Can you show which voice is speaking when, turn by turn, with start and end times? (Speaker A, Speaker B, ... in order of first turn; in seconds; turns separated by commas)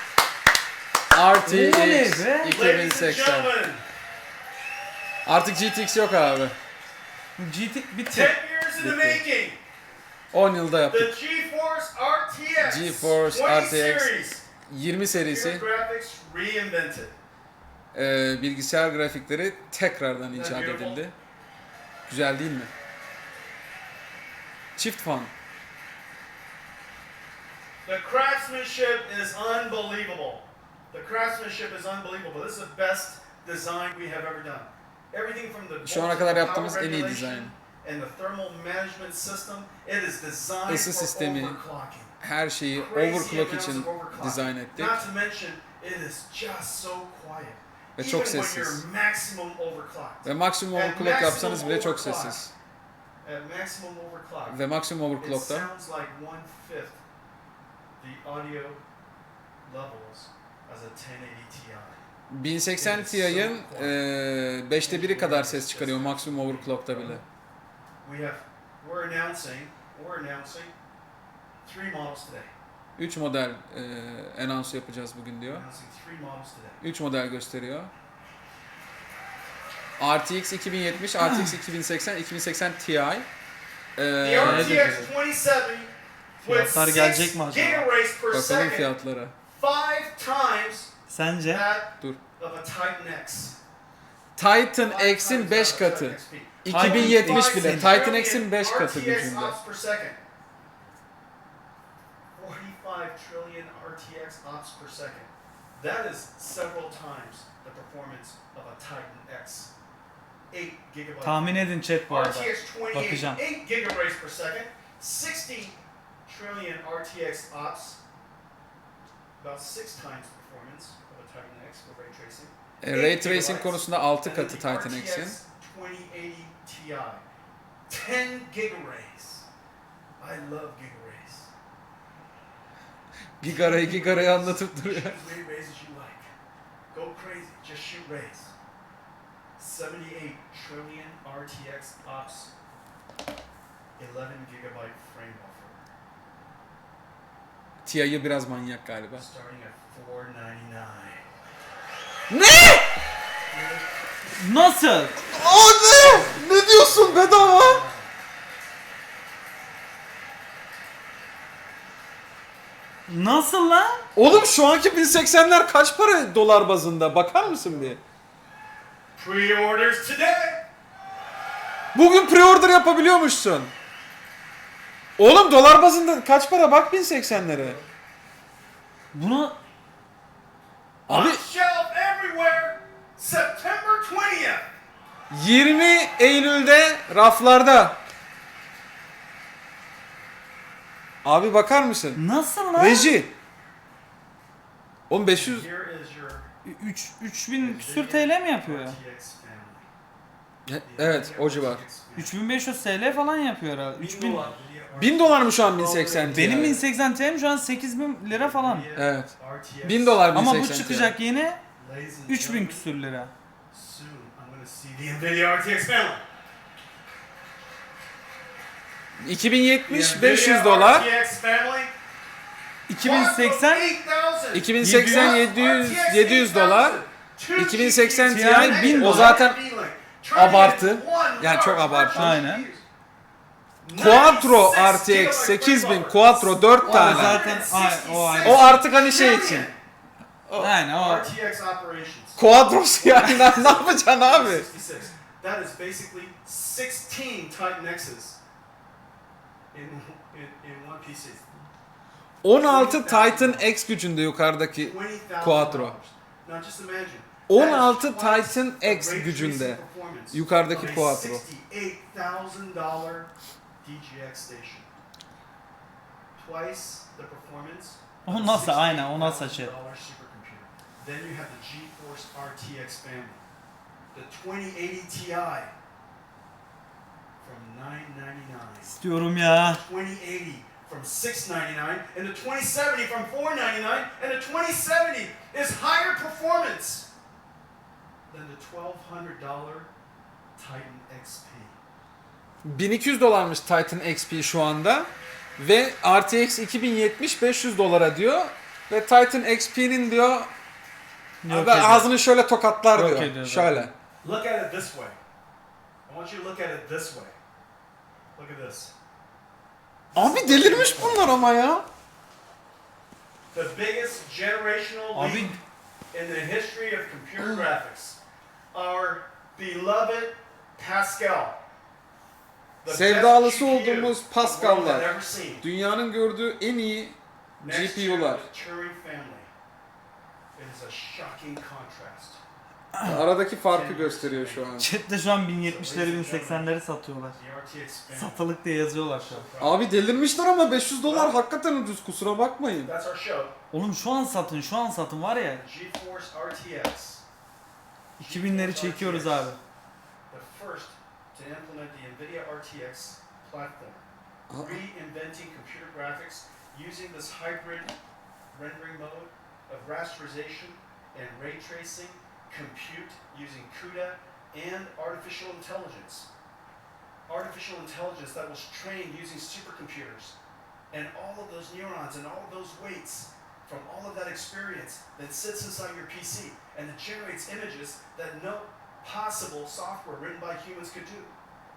Speaker A: 1.1-3.5, Speaker B: 1.4-2.6, Speaker C: 2.5-3.8, Speaker A: 5.2-6.6, Speaker B: 7.4-8.3, Speaker C: 8.1-9.6, Speaker A: 8.8-9.2, Speaker A: 10.3-11.1, Speaker C: 10.9-14.4, Speaker A: 12.6-14.1, Speaker A: 14.7-15.7, Speaker C: 15.2-17.2, Speaker A: 17.9-21.1, Speaker C: 20.3-21.0, Speaker A: 22.1-22.7, Speaker A: 24.8-25.3, Speaker C: 27.9-42.1, Speaker A: 35.8-37.5, Speaker A: 40.7-41.6, Speaker A: 42.2-45.0, Speaker C: 42.7-52.5, Speaker A: 48.0-48.8, Speaker A: 50.2-52.5, Speaker C: 53.2-54.6, Speaker A: 54.5-55.7, Speaker C: 55.2-57.0, Speaker C: 58.0-58.8, Speaker C: 59.6-62.0, Speaker A: 62.3-67.2, Speaker C: 62.8-64.0, Speaker C: 64.8-67.2, Speaker C: 68.0-70.7, Speaker C: 71.7-72.5, Speaker A: 73.0-75.7, Speaker C: 75.5-76.8, Speaker A: 76.8-77.9, Speaker A: 80.0-83.3, Speaker A: 84.0-85.1, Speaker C: 84.2-88.9, Speaker B: 84.4-85.1, Speaker B: 86.4-87.9, Speaker A: 88.3-89.3, Speaker C: 89.5-90.9, Speaker B: 91.1-91.7, Speaker C: 91.5-93.6, Speaker A: 94.4-99.6, Speaker C: 94.8-100.2, Speaker B: 96.7-97.9, Speaker C: 102.3-109.7, Speaker C: 110.5-118.0, Speaker B: 111.2-113.4, Speaker C: 119.4-127.2, Speaker A: 122.8-125.4, Speaker C: 127.9-129.5, Speaker C: 130.2-131.5, Speaker A: 133.4-135.2, Speaker C: 133.5-136.3, Speaker C: 136.9-138.5, Speaker C: 139.6-142.5, Speaker C: 144.0-145.8, Speaker A: 147.8-149.3, Speaker C: 149.2-151.2, Speaker A: 152.3-153.0, Speaker C: 153.5-153.8, Speaker B: 154.4-155.2, Speaker A: 155.3-157.8, Speaker C: 155.8-158.1, Speaker B: 163.1-164.1, Speaker A: 164.2-168.0, Speaker C: 167.5-168.0, Speaker C: 169.2-170.7, Speaker A: 171.9-173.7, Speaker A: 175.2-177.8, Speaker C: 177.5-177.8, Speaker B: 179.1-179.6, Speaker A: 181.1-181.4, Speaker C: 181.1-184.7, Speaker A: 185.3-188.0, Speaker A: 191.2-192.2, Speaker B: 192.2-193.1, Speaker A: 192.8-193.3, Speaker A: 195.1-195.7, Speaker C: 195.3-196.5, Speaker B: 196.7-199.0, Speaker C: 197.6-199.9, Speaker A: 200.7-201.8, Speaker C: 200.9-202.3, Speaker B: 202.2-204.5, Speaker C: 204.0-206.9, Speaker A: 204.9-206.8, Speaker B: 206.3-208.9, Speaker C: 208.3-210.2, Speaker A: 208.9-209.3, Speaker A: 209.8-211.2, Speaker B: 210.3-211.6, Speaker C: 211.8-212.8, Speaker B: 212.3-213.3, Speaker C: 213.7-216.2, Speaker A: 219.2-221.1, Speaker C: 219.9-221.9, Speaker B: 222.9-223.9, Speaker C: 222.9-232.8, Speaker A: 224.5-227.0, Speaker B: 224.8-225.4, Speaker A: 227.6-229.6, Speaker B: 228.3-229.4, Speaker A: 230.3-232.4, Speaker B: 232.2-232.7, Speaker C: 233.8-239.8, Speaker A: 233.9-237.4, Speaker B: 236.8-238.7, Speaker A: 238.4-239.7, Speaker A: 240.5-240.7, Speaker B: 240.6-241.3, Speaker C: 240.9-242.4, Speaker A: 242.4-244.7, Speaker C: 242.9-248.4, Speaker C: 249.7-251.5, Speaker A: 252.4-256.0, Speaker C: 252.5-253.7, Speaker C: 254.7-263.3, Speaker A: 257.5-259.8, Speaker A: 260.3-261.4, Speaker C: 263.8-264.9, Speaker C: 266.4-273.4, Speaker B: 268.2-269.7, Speaker C: 274.1-275.7, Speaker C: 277.4-287.1, Speaker B: 278.9-279.8, Speaker C: 288.3-289.9, Speaker C: 290.6-291.8, Speaker A: 292.6-300.5, Speaker B: 301.4-302.1, Speaker A: 301.5-303.9, Speaker B: 302.9-303.9, Speaker C: 304.2-305.2, Speaker C: 306.1-307.4, Speaker C: 308.4-308.9, Speaker C: 310.1-311.3, Speaker A: 310.1-311.9, Speaker C: 313.5-315.6, Speaker B: 315.1-315.6, Speaker C: 316.1-318.2, Speaker C: 318.7-321.6, Speaker C: 322.8-325.6, Speaker A: 322.9-328.5, Speaker C: 327.6-329.5, Speaker C: 330.6-332.4, Speaker A: 333.0-334.9, Speaker C: 333.7-334.7, Speaker B: 334.8-337.4, Speaker C: 335.6-336.7, Speaker C: 337.4-338.6, Speaker B: 338.1-339.4, Speaker C: 339.2-339.9, Speaker A: 339.6-342.9, Speaker C: 341.0-341.4, Speaker C: 342.8-343.6, Speaker B: 343.7-345.6, Speaker C: 345.6-347.2, Speaker C: 348.2-349.6, Speaker B: 348.2-349.6, Speaker C: 350.3-357.9, Speaker A: 354.5-354.8, Speaker C: 358.5-366.3, Speaker C: 367.3-370.4, Speaker C: 370.9-381.3